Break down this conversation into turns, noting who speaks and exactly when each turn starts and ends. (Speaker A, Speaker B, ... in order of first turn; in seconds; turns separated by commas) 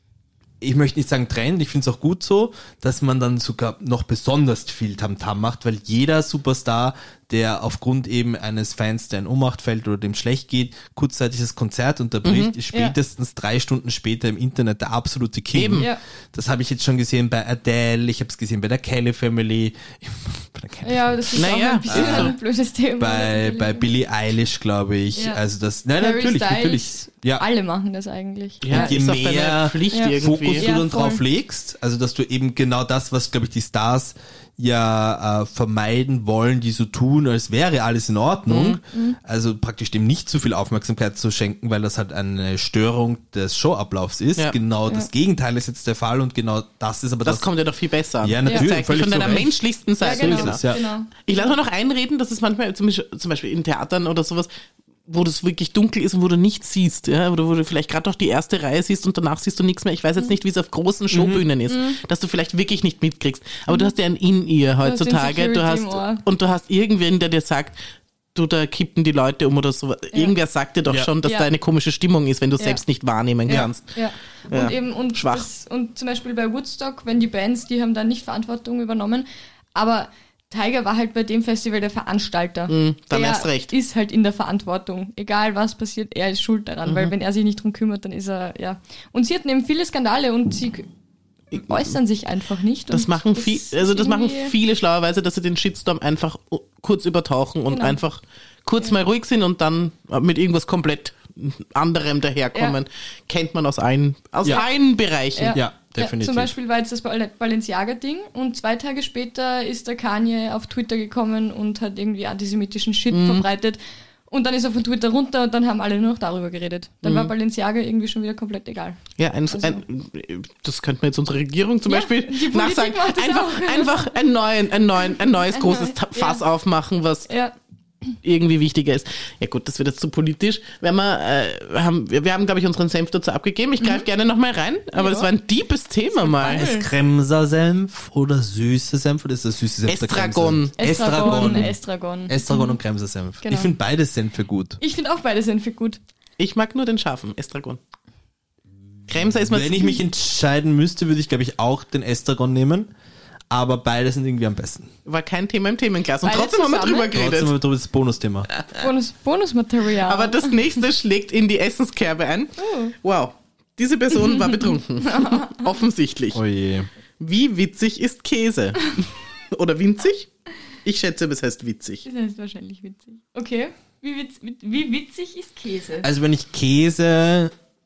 Speaker A: 0.6-22.3, Speaker B: 12.2-12.5, Speaker B: 15.5-15.9, Speaker C: 20.8-23.9, Speaker B: 21.4-22.4, Speaker A: 23.0-27.4, Speaker C: 25.1-25.4, Speaker C: 26.0-29.0, Speaker B: 28.6-30.7, Speaker A: 28.7-47.5, Speaker C: 29.9-31.2, Speaker B: 38.5-38.8, Speaker C: 38.9-39.2, Speaker B: 47.2-50.6, Speaker A: 48.2-50.9, Speaker C: 50.0-51.4, Speaker B: 51.2-54.5, Speaker B: 55.1-67.8, Speaker A: 61.1-61.5, Speaker C: 61.7-62.0, Speaker C: 64.8-66.2, Speaker B: 68.3-74.0, Speaker C: 71.2-71.5, Speaker C: 73.5-90.9, Speaker B: 74.5-75.5, Speaker B: 82.7-83.7, Speaker B: 86.9-87.1, Speaker C: 91.5-94.5, Speaker B: 92.9-105.6, Speaker C: 97.7-98.0, Speaker C: 105.4-119.8, Speaker A: 105.5-106.5, Speaker B: 113.1-113.5, Speaker B: 117.0-117.3, Speaker B: 119.2-127.3, Speaker C: 121.9-124.1, Speaker C: 125.5-126.4, Speaker C: 127.3-127.5, Speaker B: 128.2-136.7, Speaker C: 134.9-135.3, Speaker C: 136.2-136.9, Speaker A: 136.4-141.8, Speaker B: 139.9-141.6, Speaker C: 140.8-142.8, Speaker A: 142.3-144.8, Speaker C: 143.4-143.7, Speaker C: 144.8-146.0, Speaker B: 146.4-147.8, Speaker B: 149.1-150.0, Speaker A: 149.5-152.9, Speaker A: 153.5-154.9, Speaker B: 155.1-157.5, Speaker C: 156.2-157.1, Speaker A: 157.1-158.5, Speaker B: 158.6-158.8, Speaker C: 158.7-160.6, Speaker B: 160.0-166.4, Speaker C: 162.6-162.9, Speaker C: 164.2-165.6, Speaker A: 166.3-166.9, Speaker B: 167.2-170.3, Speaker B: 170.8-172.1, Speaker C: 172.1-176.1, Speaker A: 176.0-177.5